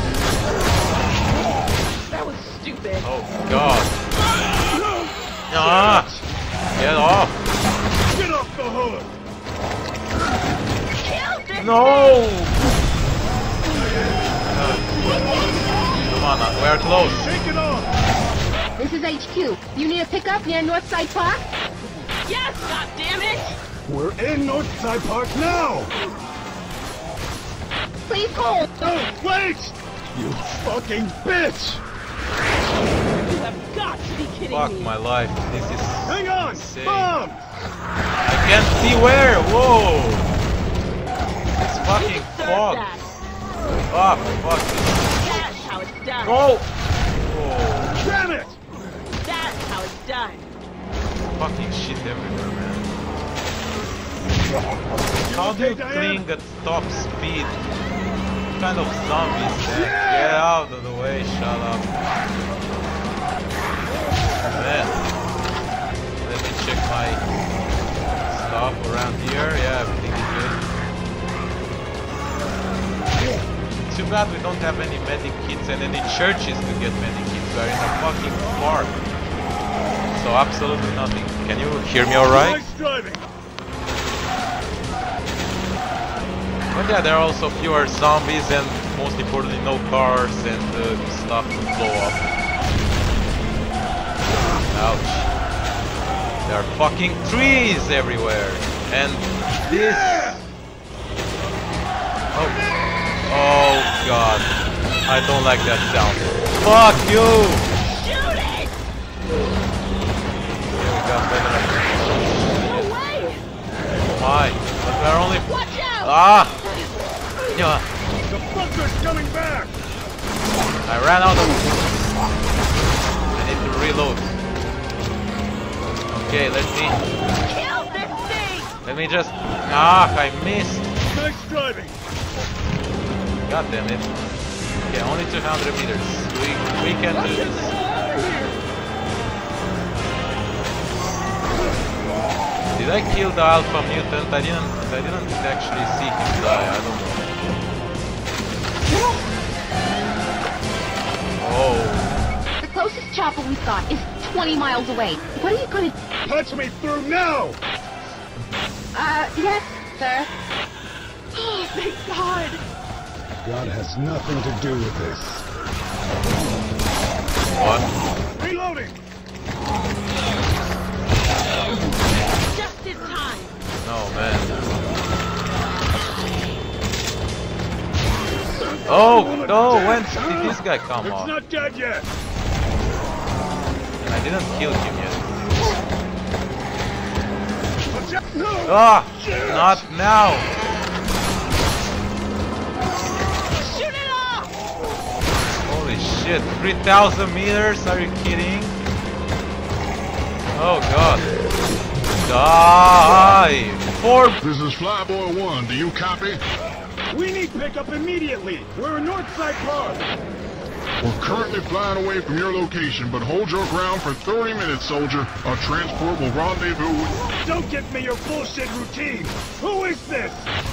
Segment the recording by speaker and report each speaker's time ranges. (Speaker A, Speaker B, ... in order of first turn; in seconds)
Speaker A: 2.1-3.1, 11.0-12.2, 22.3-23.6, 33.2-34.9, 42.0-43.1, 45.2-46.4, 49.2-50.5, 107.8-108.8, 112.6-113.4, 115.5-117.6, 127.4-128.8, 137.3-138.6, 161.3-162.6, 172.5-173.6, 193.6-194.5
Speaker B: 3.0-3.9, 5.5-6.1, 6.8-7.4, 11.6-12.6, 14.5-14.9, 16.0-17.3, 34.5-37.2, 38.3-40.3, 41.7-42.9, 43.9-45.7, 46.2-46.7, 47.2-48.0, 51.3-52.9, 55.3-57.6, 58.5-61.9, 64.4-65.0, 66.2-67.2, 68.2-70.6, 73.9-79.0, 80.1-82.6, 86.7-92.2, 94.7-95.3, 96.5-100.4, 103.3-104.5, 105.1-107.7, 110.8-112.9, 114.0-115.5, 116.0-116.6, 117.5-117.8, 120.9-122.1, 123.3-124.3, 126.1-127.0, 128.8-130.9, 133.4-134.1, 134.8-137.7, 142.8-147.3, 151.4-152.2, 167.5-167.9, 173.8-174.6, 178.9-181.3, 184.0-185.3, 188.7-190.5, 195.7-198.8, 200.5-201.3, 202.2-204.4
Speaker C: 4.7-6.2, 8.1-9.1, 17.2-17.9, 23.9-25.9, 28.8-31.8, 36.1-37.5, 48.0-48.6, 55.3-56.2, 59.7-60.5, 82.3-83.3, 99.7-100.4, 118.2-119.8, 131.1-132.0, 156.2-157.6, 163.4-165.5, 168.4-169.0, 178.9-182.1, 187.9-189.8, 207.1-210.1, 217.3-220.5
Speaker D: 18.8-21.4, 28.1-28.7, 152.6-155.9, 158.9-160.3
Speaker E: 204.4-206.4, 211.0-217.2